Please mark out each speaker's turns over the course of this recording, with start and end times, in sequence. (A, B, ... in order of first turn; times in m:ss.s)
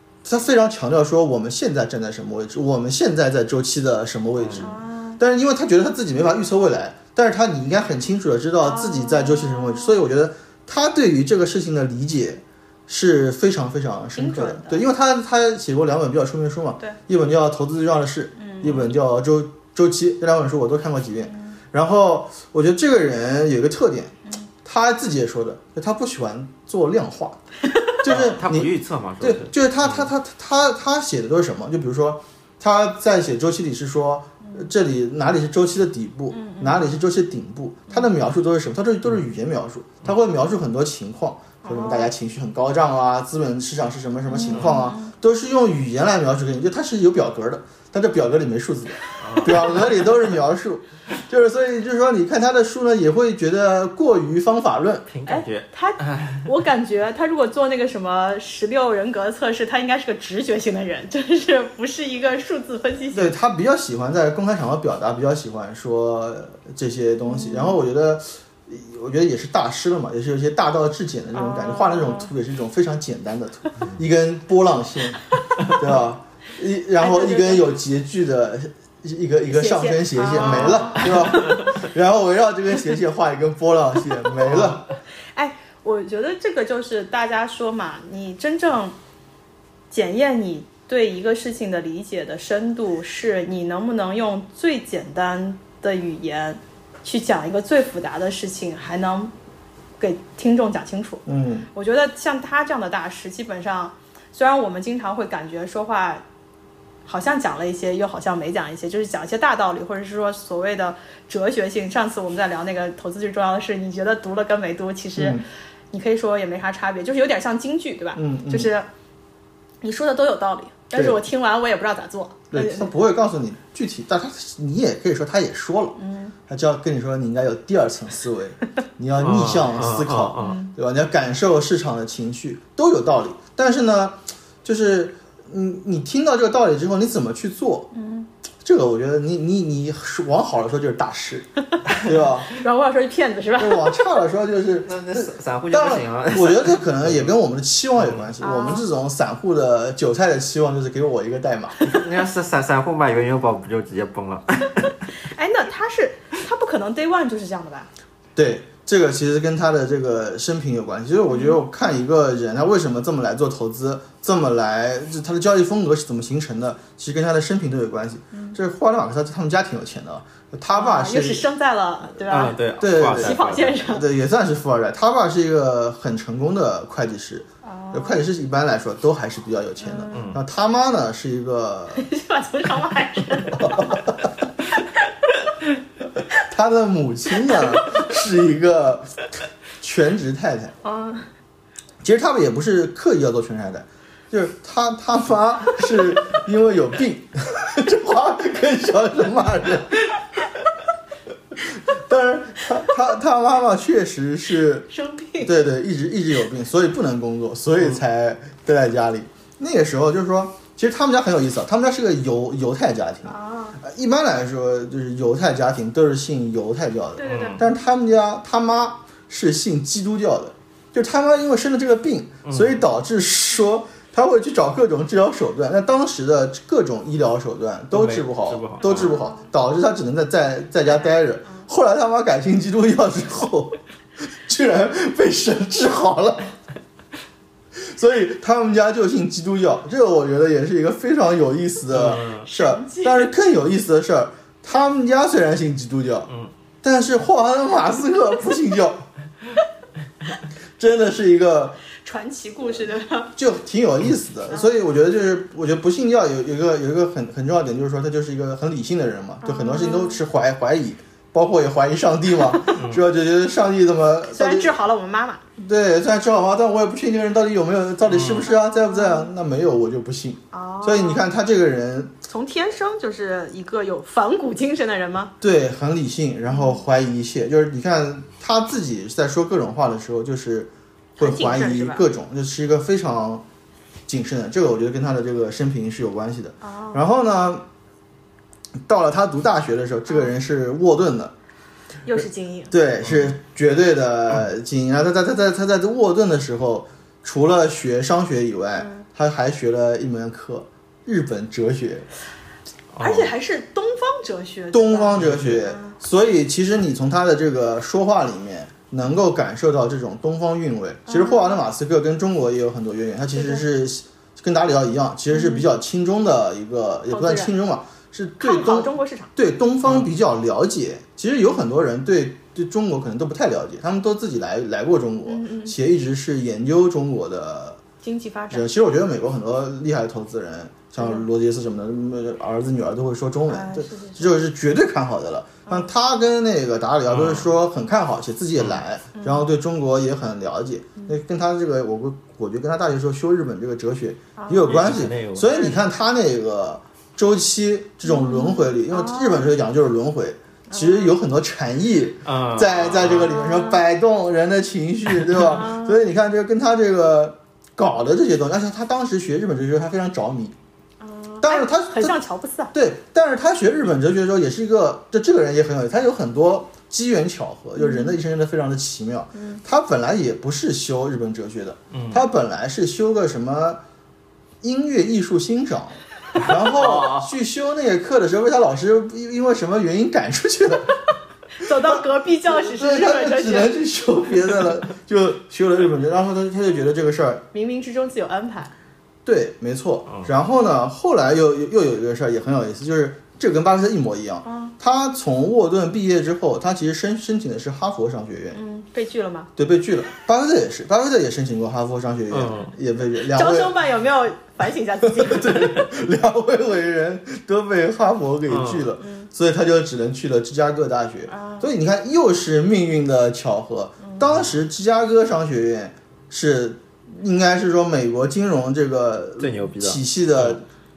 0:00.2-0:27.4 A
0:04.4-0:04.7 B
0:04.6-0:05.2 C
0:08.6-0:10.0 C
0:14.2-0:14.8 C
0:18.4-0:18.7 C
0:21.2-0:21.6 C
0:28.0-0:55.1 A
0:28.0-0:30.1 B
0:34.4-0:34.7 C
0:36.3-0:36.9 C
0:41.6-0:42.1 C
0:44.3-0:45.1 C
0:44.5-0:44.8 B
0:49.2-0:49.8 B
0:55.1-0:56.5 B
0:55.3-1:03.3 C
1:03.1-1:24.8 A
1:07.2-1:07.8 C
1:11.3-1:12.3 C
1:17.0-1:17.6 C
1:19.5-1:21.7 C
1:20.4-1:21.1 B
1:24.5-1:24.9 B
1:25.4-1:29.0 C
1:29.9-1:39.3 C
1:40.0-1:46.2 C
1:41.3-1:41.7 A
1:47.1-1:58.9 C
1:55.2-1:55.4 A
1:58.2-1:58.7 A
1:59.8-2:02.9 C
2:02.5-2:06.0 A
2:06.0-2:06.4 C
2:06.5-2:17.9 A
2:09.2-2:10.6 B
2:10.4-2:10.7 C
2:17.9-2:18.3 C
2:18.6-2:22.6 A
2:22.5-2:24.2 C
2:23.6-2:31.9 A
2:24.9-2:27.3 B
2:28.0-2:28.3 B
2:28.4-2:28.9 C
2:31.8-2:35.0 B
2:35.2-2:37.9 C
2:38.4-2:51.4 A
2:41.3-2:41.6 C
2:50.7-2:54.1 C
2:52.3-2:53.8 B
2:52.8-3:02.1 A
2:57.6-2:58.2 C
2:59.8-3:00.1 C
3:00.1-3:00.4 B
3:02.0-3:04.0 C
3:03.5-3:04.3 A
3:06.4-3:09.3 A
3:07.5-3:07.9 C
3:09.8-3:10.8 A
3:10.8-3:11.3 C
3:12.0-3:20.5 A
3:21.5-3:24.9 A
3:24.9-3:25.6 C
3:25.4-3:56.5 A
3:33.3-3:33.8 C
3:37.2-3:37.6 C
3:37.3-3:37.6 B
3:42.5-3:42.8 B
3:47.9-3:49.2 B
3:48.8-3:49.5 C
3:57.8-4:06.3 A
4:01.9-4:02.5 B
4:02.5-4:03.3 C
4:06.8-4:09.0 A
4:10.8-4:11.8 A
4:12.0-4:13.3 C
4:13.4-4:24.7 A
4:19.4-4:20.2 C
4:22.8-4:23.0 B
4:24.3-4:25.4 C
4:25.6-4:32.2 A
4:28.1-4:28.5 B
4:28.9-4:29.3 C
4:30.5-4:31.3 C
4:32.3-4:35.3 C
4:35.4-4:43.4 A
4:36.5-4:36.8 C
4:41.2-4:42.0 C
4:44.1-4:47.7 A
4:46.6-4:47.0 C
4:48.9-4:51.3 A
4:52.1-4:52.7 C
4:52.2-5:02.1 A
4:53.1-4:53.3 B
4:58.8-4:59.1 C
5:02.9-5:03.3 B
5:03.0-5:06.0 C
5:04.7-5:27.8 A
5:05.2-5:05.6 B
5:11.1-5:11.6 C
5:13.4-5:13.6 C
5:15.3-5:15.7 C
5:17.1-5:17.5 C
5:18.4-5:19.3 C
5:25.3-5:25.8 C
5:28.0-5:28.7 C
5:28.5-6:00.6 A
5:31.0-5:31.3 C
5:33.5-5:34.4 C
5:37.1-5:37.5 B
5:39.2-5:39.5 C
5:44.4-5:44.8 C
5:44.6-5:45.7 B
5:48.0-5:49.5 C
5:50.7-5:51.1 C
5:52.2-5:53.3 B
5:53.3-5:53.8 C
5:55.4-5:56.0 C
6:01.0-6:02.7 C
6:01.4-6:02.2 A
6:02.7-6:13.8 A
6:07.8-6:08.2 C
6:09.3-6:09.6 C
6:11.9-6:12.2 B
6:14.6-6:21.0 A
6:16.4-6:17.3 B
6:21.6-6:23.7 C
6:21.7-6:27.4 A
6:27.5-6:28.7 C
6:29.2-6:38.6 A
6:34.4-6:34.7 C
6:38.5-6:39.5 C
6:39.6-6:43.8 A
6:42.3-6:42.7 B
6:43.3-6:45.9 C
6:45.0-7:00.6 A
6:48.5-6:48.9 B
6:49.0-6:49.3 C
6:51.3-6:51.7 C
6:59.4-7:00.6 B